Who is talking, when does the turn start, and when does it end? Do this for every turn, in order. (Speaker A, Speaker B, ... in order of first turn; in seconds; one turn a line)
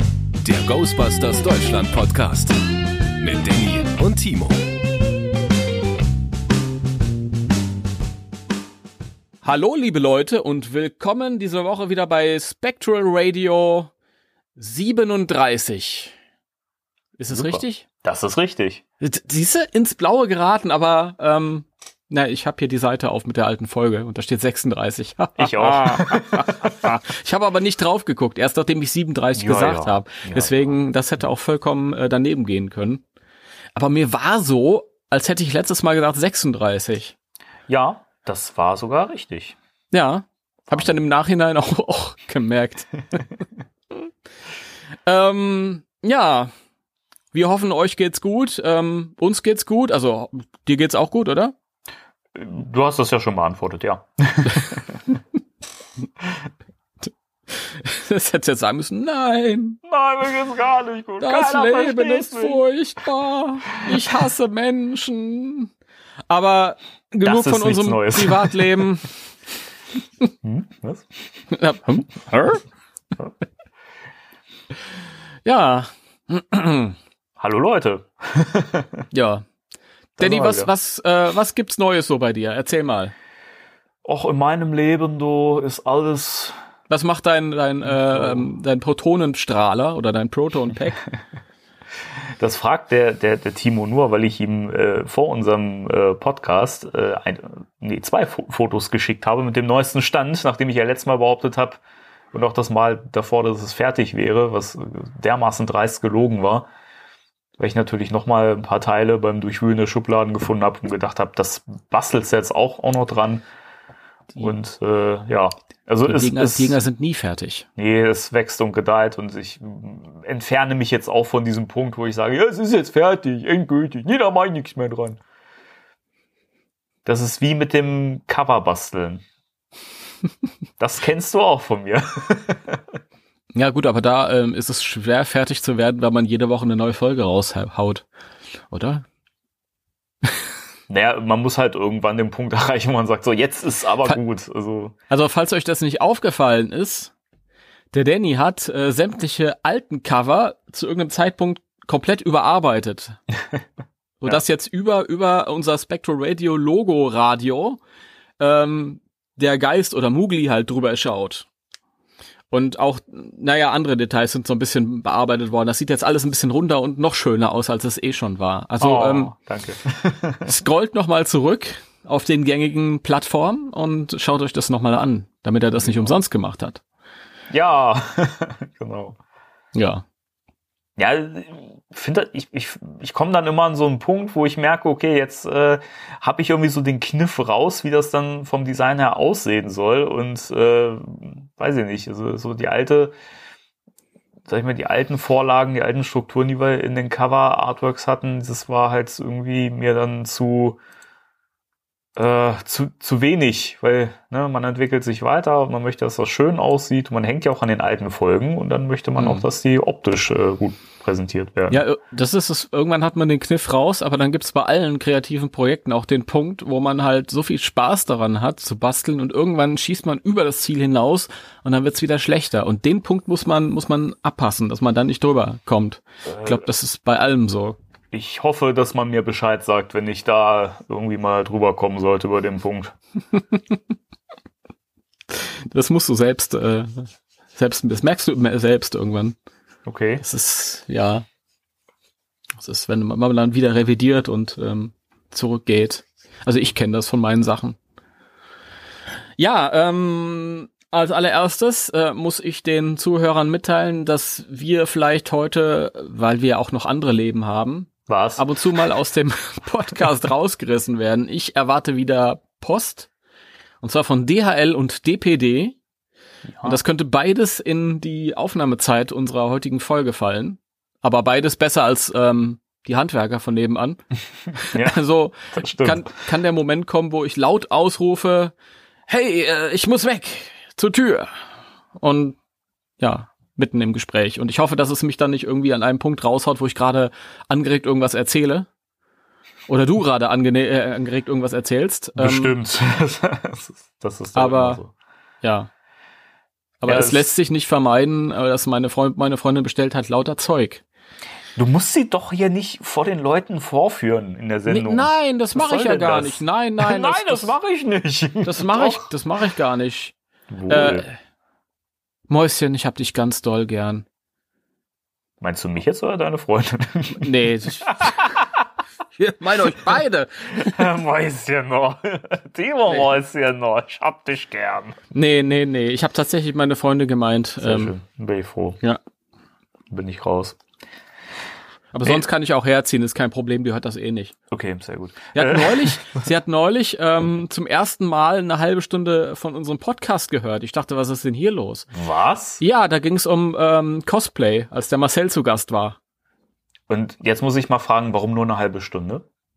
Speaker A: 0.4-2.6
Speaker A: 3.2-4.6
Speaker B: 9.4-13.9
Speaker B: 14.6-16.1
Speaker B: 17.2-17.8
Speaker C: 17.3-18.8
Speaker B: 19.0-33.0
Speaker C: 25.4-26.9
Speaker C: 29.4-30.5
Speaker B: 33.7-37.1
Speaker C: 37.7-39.5
Speaker B: 39.9-43.2
Speaker B: 45.0-46.5
Speaker B: 47.3-51.5
Speaker C: 52.3-55.0
Speaker B: 57.5-59.8
Speaker C: 59.8-62.6
Speaker B: 61.2-65.7
Speaker B: 66.3-69.1
Speaker C: 67.2-68.8
Speaker C: 70.4-71.1
Speaker B: 71.5-72.6
Speaker B: 75.4-76.9
Speaker C: 77.4-79.0
Speaker B: 79.1-79.4
Speaker C: 80.2-80.7
Speaker B: 80.2-83.1
Speaker C: 84.0-86.6
Speaker B: 86.9-91.0
Speaker C: 87.8-88.5
Speaker C: 92.4-101.8
Speaker C: 102.3-106.7
Speaker C: 107.6-113.4
Speaker C: 114.4-116.8
Speaker B: 116.0-117.7
Speaker C: 117.8-125.2
Speaker C: 127.0-129.2
Speaker C: 130.8-132.8
Speaker B: 133.5-138.1
Speaker B: 138.7-139.0
Speaker C: 140.9-144.9
Speaker B: 145.1-147.1
Speaker B: 147.9-153.2
Speaker B: 154.2-157.8
Speaker B: 158.4-161.4
Speaker B: 162.5-169.3
Speaker C: 168.8-170.5
Speaker B: 170.4-176.8
Speaker C: 175.8-176.1
Speaker C: 177.5-179.2
Speaker B: 179.7-180.0
Speaker C: 181.0-193.1
Speaker C: 194.5-200.8
Speaker C: 202.2-211.8
Speaker B: 209.2-209.5
Speaker B: 211.7-227.8
Speaker C: 226.3-226.6
Speaker C: 228.1-232.9
Speaker B: 235.3-239.3
Speaker C: 239.8-240.2
Speaker B: 240.2-241.2
Speaker B: 242.6-247.8
Speaker B: 249.4-263.1
Speaker C: 258.1-258.8
Speaker B: 263.8-265.8
Speaker C: 266.5-266.8
Speaker B: 266.6-274.0
Speaker B: 274.6-278.5
Speaker C: 274.7-275.0
Speaker C: 275.5-276.1
Speaker B: 279.1-281.3
Speaker B: 282.0-282.4
Speaker B: 283.0-288.7
Speaker B: 289.7-292.5
Speaker C: 292.2-294.9
Speaker B: 294.3-294.8
Speaker B: 295.4-295.7
Speaker B: 296.8-300.8
Speaker C: 296.8-297.3
Speaker C: 301.5-309.1
Speaker B: 304.6-307.5
Speaker B: 308.4-310.1
Speaker C: 310.5-311.0
Speaker B: 310.7-311.2
Speaker B: 312.3-314.0
Speaker C: 315.4-317.3
Speaker B: 317.1-318.1
Speaker C: 317.8-318.5
Speaker B: 319.2-320.8
Speaker C: 320.6-325.0
Speaker B: 325.1-327.9
Speaker C: 327.6-328.8
Speaker C: 329.9-330.6
Speaker B: 331.9-334.3
Speaker C: 334.5-336.1
Speaker B: 335.3-341.9
Speaker C: 341.9-342.6
Speaker B: 342.6-346.0
Speaker C: 346.9-349.2